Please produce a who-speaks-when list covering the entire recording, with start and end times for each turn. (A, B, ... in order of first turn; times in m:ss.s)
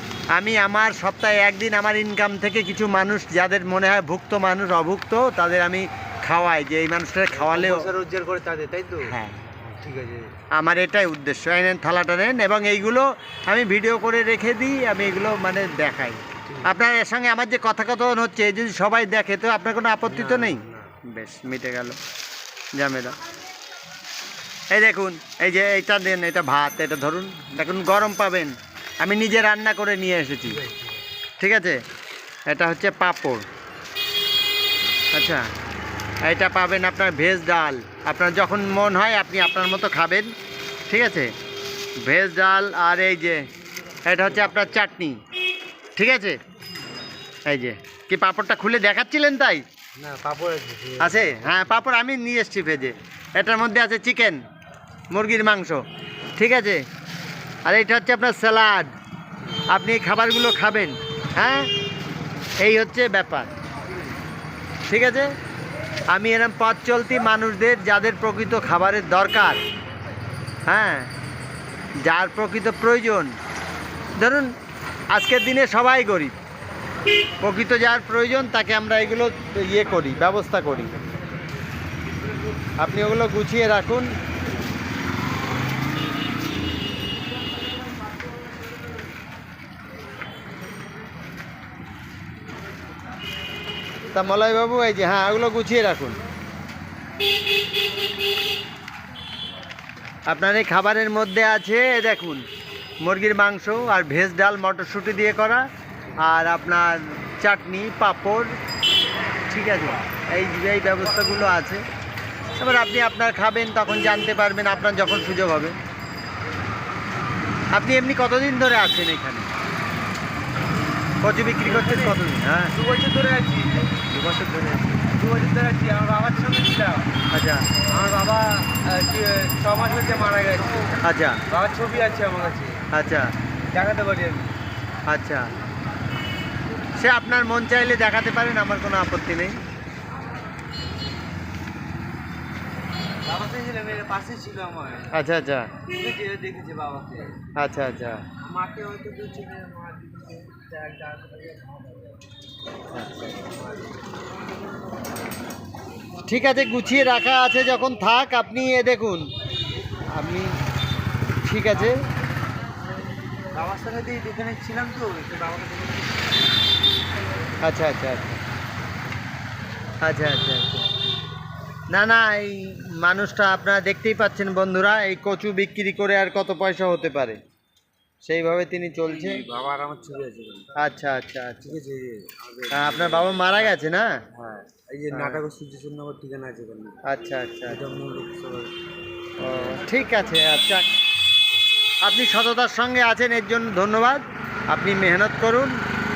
0:00.3-0:07.9 A
0:07.3-0:10.3 B
0:09.0-0:09.4 A
0:10.5-0:22.0 A
0:16.4-0:16.7 B
0:20.0-0:20.9 B
0:22.8-0:23.2 A
0:24.7-0:30.6 A
0:30.4-0:31.0 B
0:31.4-0:31.8 A
0:32.5-0:33.4 A
0:35.1-0:35.4 A
0:36.2-0:40.3 A
0:40.9-0:41.3 A
0:42.0-0:43.4 A
0:44.1-0:45.2 A
0:44.2-0:44.7 B
0:46.0-0:46.4 A
0:47.5-0:49.6 A
0:50.0-0:51.7 B
0:51.0-0:54.4 A
0:55.1-0:55.8 A
0:56.4-0:56.8 A
0:57.6-0:58.9 A
0:59.7-1:01.7 A
1:02.6-1:03.5 A
1:04.9-1:05.3 A
1:06.1-1:09.6 A
1:10.7-1:11.1 A
1:12.0-1:13.3 A
1:14.2-1:14.5 A
1:15.1-1:16.3 A
1:17.4-1:21.0 A
1:22.8-1:24.1 A
1:34.1-1:36.2 A
1:40.3-1:42.4 A
1:43.0-1:45.6 A
1:46.2-1:48.5 A
1:49.5-1:51.8 A
1:52.6-1:55.7 A
1:57.7-1:59.5 A
2:01.2-2:02.7 A
2:01.6-2:07.2 B
2:07.3-2:07.7 A
2:07.8-2:12.8 B
2:11.0-2:11.4 A
2:12.9-2:13.3 A
2:13.7-2:14.6 B
2:15.1-2:15.4 A
2:16.9-2:19.6 A
2:23.2-2:25.1 B
2:25.1-2:25.8 A
2:25.8-2:27.4 B
2:27.6-2:28.2 A
2:28.4-2:32.1 B
2:32.9-2:33.3 A
2:33.3-2:33.9 B
2:36.2-2:39.2 A
2:40.1-2:40.5 A
2:41.4-2:41.9 A
2:43.5-2:46.3 B
2:47.6-2:48.4 A
2:50.0-2:50.8 A
2:51.9-2:57.4 A
2:58.2-2:59.4 A
2:59.1-3:00.7 B
3:00.8-3:01.8 A
3:01.6-3:03.8 B
3:02.7-3:04.2 A
3:04.3-3:07.0 B
3:05.1-3:05.4 A
3:07.0-3:07.8 A
3:07.7-3:08.7 B
3:09.4-3:10.9 A
3:09.4-3:09.8 B
3:12.0-3:15.7 A